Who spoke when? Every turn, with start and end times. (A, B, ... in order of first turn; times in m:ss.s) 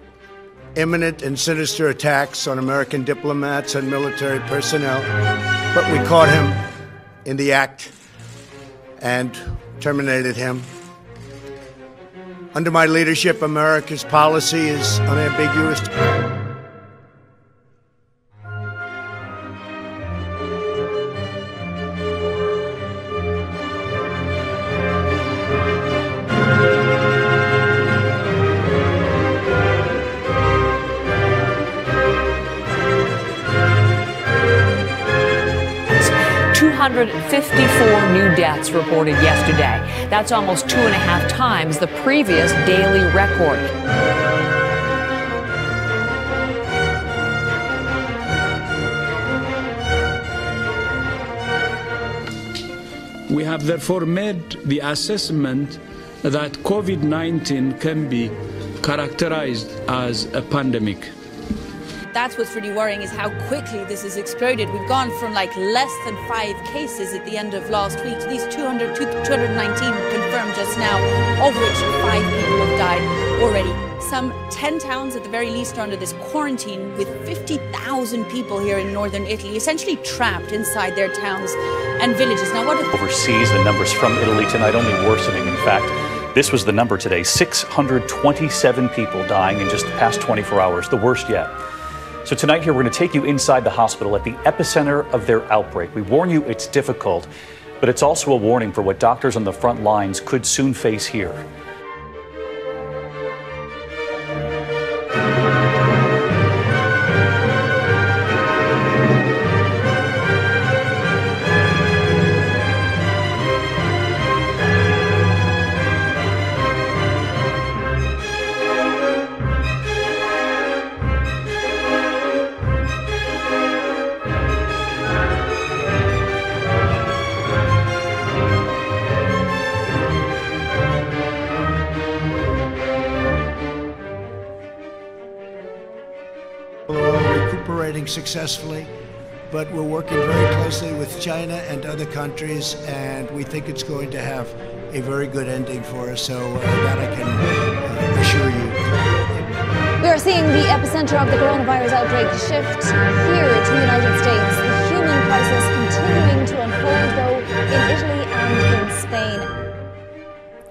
0:00.8-0:05.1 A
0:05.7-0:06.6 A
0:07.2-0:07.9 A
0:09.0-0:10.7 A
0:12.5-0:15.9 A
0:36.0-0:43.7 B
0:53.3-1:01.1 C
1:02.1-1:22.9 D
1:22.9-1:31.6 E
1:32.2-1:37.3 E
1:37.8-1:41.4 E
2:16.9-2:18.9 A
2:19.5-2:28.8 A
2:30.0-2:39.5 F